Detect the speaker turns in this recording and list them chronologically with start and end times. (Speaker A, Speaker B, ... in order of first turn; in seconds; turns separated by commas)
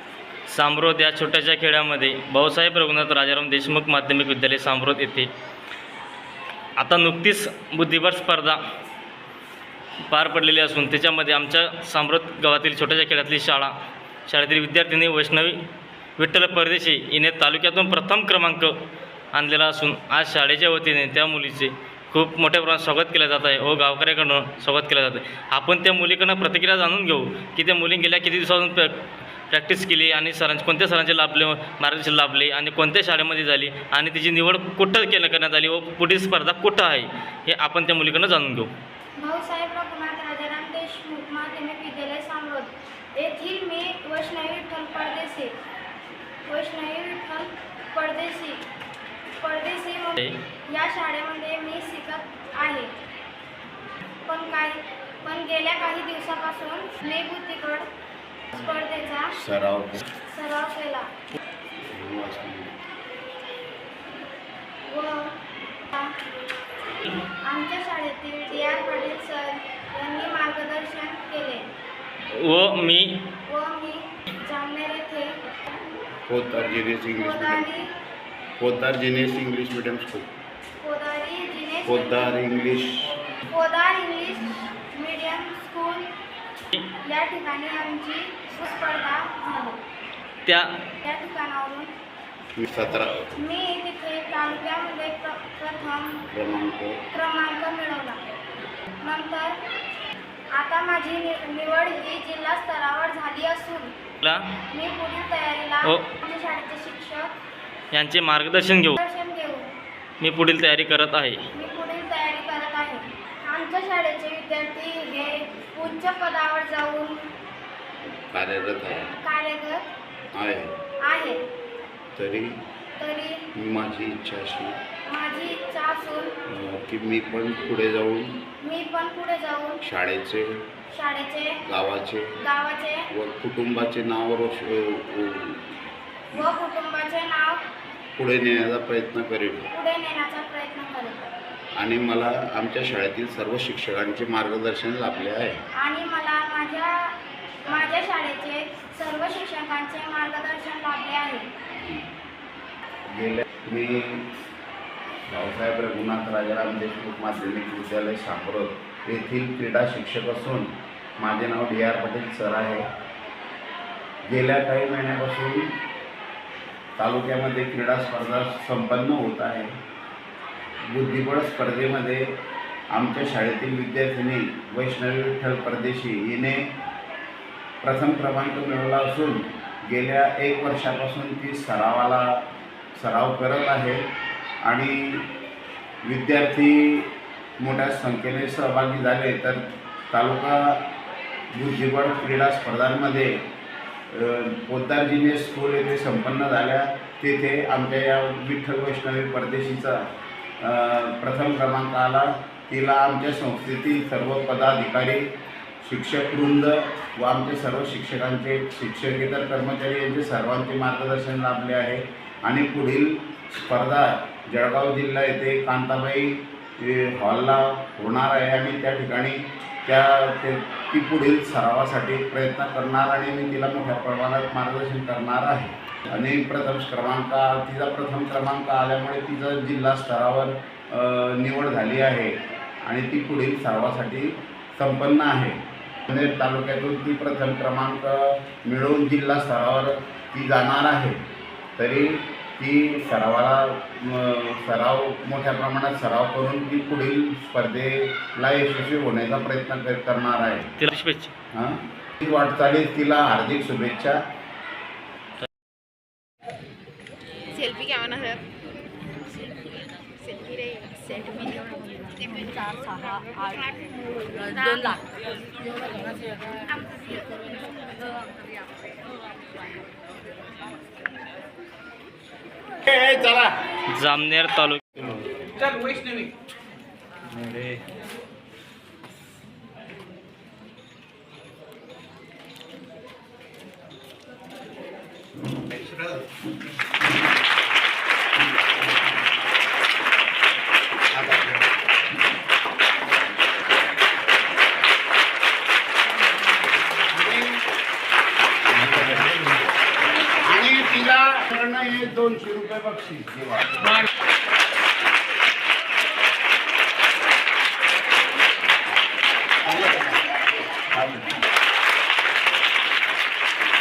Speaker A: 0.5-5.3, Speaker A: 6.8-8.6, Speaker A: 10.1-13.7, Speaker A: 14.3-15.6, Speaker A: 16.2-18.7, Speaker A: 19.3-38.7, Speaker B: 39.2-45.5, Speaker B: 46.5-48.6, Speaker B: 49.4-52.9, Speaker B: 54.3-57.9, Speaker B: 58.5-59.4, Speaker C: 59.4-60.0, Speaker B: 60.3-61.1, Speaker C: 61.9-62.7, Speaker B: 64.9-65.4, Speaker B: 65.9-66.2, Speaker B: 67.4-71.7, Speaker A: 72.3-73.3, Speaker B: 73.5-75.4, Speaker C: 76.3-77.7, Speaker B: 77.2-77.9, Speaker C: 78.6-80.3, Speaker B: 80.8-82.4, Speaker C: 81.9-83.1, Speaker B: 83.5-86.1, Speaker B: 87.0-89.8, Speaker A: 90.5-90.7, Speaker B: 91.0-91.9, Speaker C: 92.6-93.3, Speaker B: 93.4-96.3, Speaker C: 96.3-97.0, Speaker B: 97.1-98.3, Speaker B: 99.0-99.6, Speaker B: 100.5-103.9, Speaker A: 104.2-104.6, Speaker B: 104.7-107.3, Speaker A: 107.9-109.0, Speaker B: 109.0-109.7, Speaker A: 110.2-111.4, Speaker B: 111.5-117.2, Speaker C: 118.1-119.1, Speaker B: 119.2-119.8, Speaker C: 120.3-120.8, Speaker B: 121.0-121.4, Speaker C: 122.2-122.6, Speaker B: 123.0-123.5, Speaker C: 123.5-124.8, Speaker B: 125.1-126.4, Speaker C: 126.5-128.4, Speaker B: 128.6-129.8, Speaker C: 129.8-130.6, Speaker B: 130.9-131.6, Speaker C: 131.6-132.4, Speaker B: 132.4-133.1, Speaker C: 133.1-135.8, Speaker B: 136.3-137.7, Speaker C: 138.2-139.7, Speaker B: 139.7-141.3, Speaker C: 141.8-145.6, Speaker B: 145.8-151.5, Speaker C: 151.8-152.1, Speaker C: 153.1-154.3, Speaker C: 155.3-162.9, Speaker C: 164.2-165.8, Speaker C: 167.0-169.7, Speaker C: 170.9-172.3, Speaker C: 172.9-176.7, Speaker C: 177.8-184.0, Speaker C: 184.6-185.3, Speaker C: 186.0-190.9, Speaker C: 191.5-193.4, Speaker C: 194.1-200.1, Speaker C: 200.6-205.3, Speaker C: 205.8-241.2, Speaker C: 241.8-250.7, Speaker A: 250.8-251.3, Speaker C: 251.5-254.2, Speaker D: 257.5-258.4, Speaker D: 260.2-263.7, Speaker D: 264.3-266.3, Speaker C: 272.9-273.6, Speaker A: 273.9-275.2, Speaker D: 275.6-276.3, Speaker A: 277.3-277.8, Speaker C: 291.1-291.6, Speaker C: 297.0-297.6, Speaker C: 298.6-299.6, Speaker C: 300.2-304.0, Speaker C: 309.7-310.2, Speaker C: 310.9-311.3